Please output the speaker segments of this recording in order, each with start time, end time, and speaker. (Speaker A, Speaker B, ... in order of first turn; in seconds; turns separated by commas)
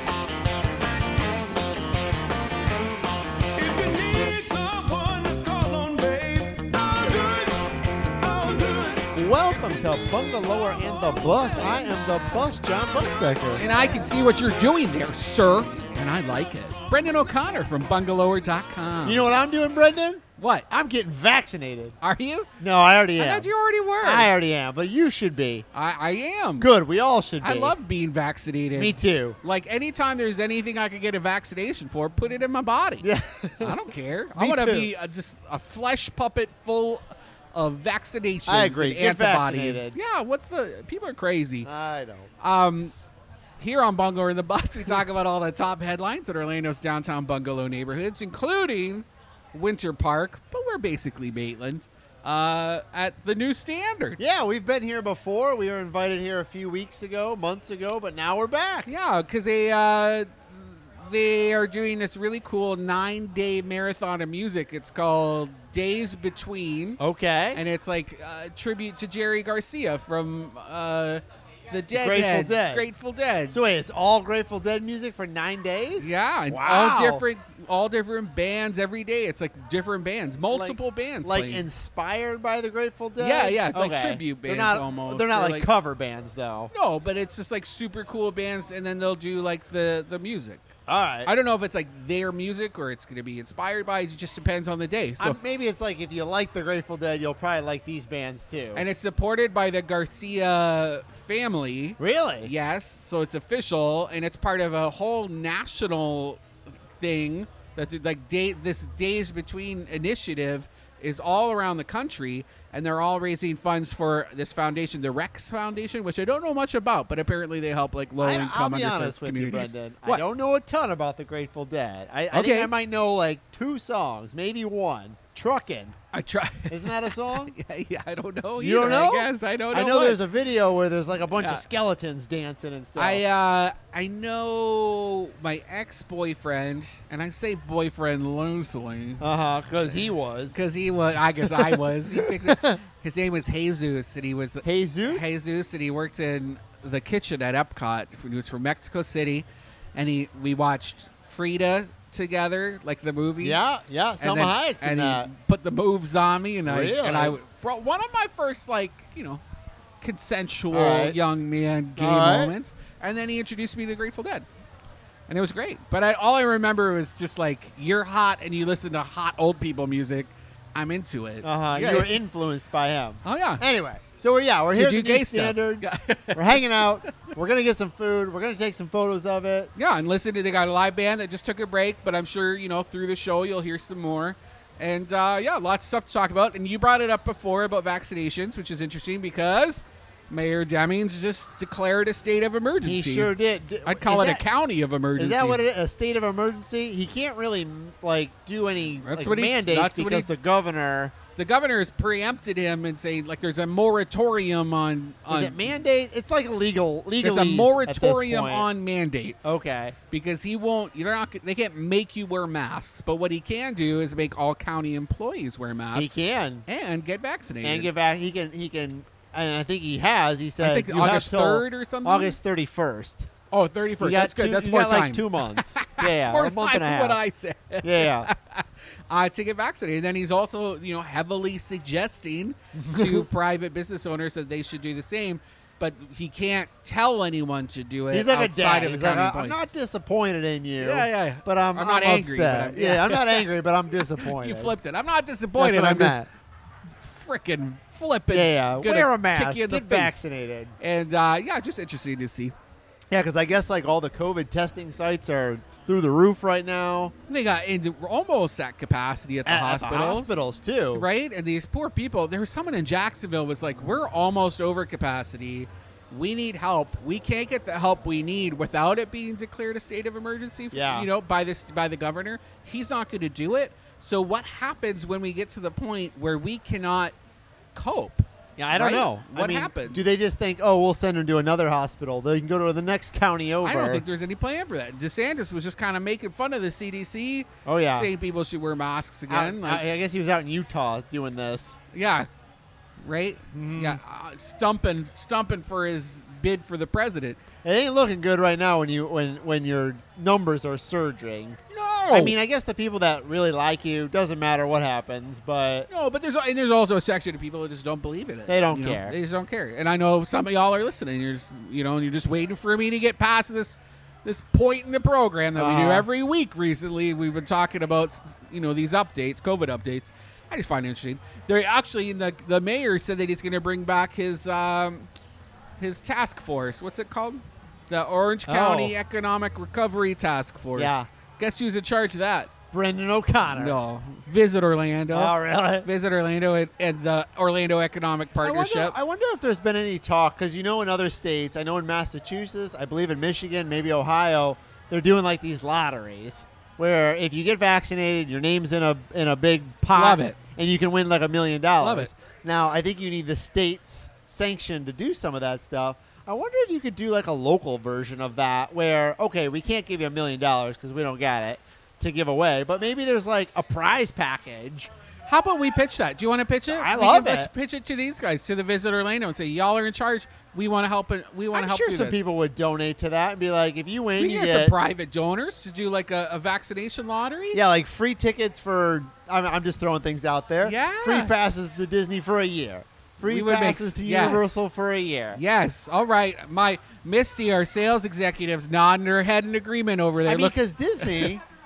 Speaker A: 3.6-9.1, Speaker B: 9.1-13.6, Speaker C: 11.3-11.9, Speaker C: 13.5-19.3, Speaker B: 19.0-22.0, Speaker C: 20.4-20.7, Speaker C: 22.0-22.5, Speaker B: 22.6-25.6, Speaker C: 23.2-24.3, Speaker C: 25.7-26.7, Speaker B: 26.6-27.8, Speaker C: 27.4-33.1, Speaker B: 28.7-29.4, Speaker B: 33.0-34.9, Speaker C: 33.6-41.7, Speaker B: 38.5-40.0, Speaker B: 41.6-42.3, Speaker C: 42.4-42.9, Speaker C: 43.6-54.2, Speaker B: 54.2-58.9, Speaker C: 58.9-67.0, Speaker B: 67.0-67.6, Speaker C: 67.5-73.6, Speaker B: 71.9-72.8, Speaker B: 73.5-77.2, Speaker C: 76.0-81.7, Speaker B: 80.5-86.7, Speaker C: 83.2-85.7, Speaker C: 86.7-90.6, Speaker B: 90.9-91.3, Speaker C: 91.2-95.4, Speaker B: 95.2-98.8, Speaker C: 98.7-106.4, Speaker B: 102.0-102.5, Speaker C: 107.0-120.2, Speaker B: 118.2-126.0, Speaker C: 122.3-122.7, Speaker C: 126.1-130.2, Speaker B: 126.7-127.5, Speaker B: 128.6-133.2, Speaker C: 131.3-131.6, Speaker C: 132.9-139.2, Speaker B: 139.2-140.6, Speaker C: 140.5-153.6, Speaker B: 141.4-142.8, Speaker B: 144.6-145.3, Speaker B: 153.4-155.3, Speaker C: 154.2-159.4, Speaker B: 156.6-157.4, Speaker C: 160.0-164.4, Speaker B: 160.7-161.2, Speaker B: 162.0-162.5, Speaker C: 165.3-172.1, Speaker B: 171.4-179.7, Speaker C: 173.2-173.6, Speaker C: 174.7-176.8, Speaker C: 179.8-193.3, Speaker B: 192.8-194.4, Speaker C: 193.8-195.6, Speaker B: 195.2-201.1, Speaker C: 199.0-200.3, Speaker C: 201.3-205.6, Speaker B: 205.3-208.7, Speaker C: 207.2-209.6, Speaker B: 209.4-210.0, Speaker C: 210.1-217.9, Speaker B: 215.9-216.7, Speaker B: 217.6-223.3, Speaker C: 220.6-222.4, Speaker C: 223.5-239.6, Speaker B: 224.0-227.2, Speaker B: 227.8-228.3, Speaker B: 232.7-233.3, Speaker B: 238.1-244.7, Speaker C: 240.8-243.4, Speaker C: 244.2-246.2, Speaker B: 245.6-246.3, Speaker C: 247.0-250.2, Speaker B: 248.3-250.7, Speaker C: 250.8-252.5, Speaker B: 253.1-257.1, Speaker C: 257.3-260.4, Speaker B: 259.4-261.1, Speaker C: 260.9-277.1, Speaker B: 270.7-271.1, Speaker C: 277.7-280.1, Speaker B: 278.6-284.0, Speaker C: 283.6-289.8, Speaker B: 287.6-288.1, Speaker B: 289.3-291.7, Speaker C: 291.9-292.3, Speaker C: 293.0-297.4, Speaker B: 293.5-294.0, Speaker B: 297.6-301.6, Speaker C: 301.7-302.4, Speaker B: 302.1-305.9, Speaker C: 305.9-325.1, Speaker B: 308.5-309.2, Speaker B: 315.6-316.1, Speaker C: 325.8-332.5, Speaker B: 328.4-328.9, Speaker B: 330.7-331.1, Speaker B: 332.7-333.8, Speaker C: 333.5-338.9, Speaker B: 335.1-335.9, Speaker B: 338.4-364.9, Speaker C: 349.9-350.4, Speaker C: 351.8-352.1, Speaker C: 365.3-372.2, Speaker B: 366.7-367.5, Speaker B: 371.5-374.8, Speaker C: 374.1-377.6, Speaker B: 377.5-385.4, Speaker C: 380.6-381.3, Speaker C: 383.2-384.6, Speaker C: 385.3-390.6, Speaker B: 390.2-391.4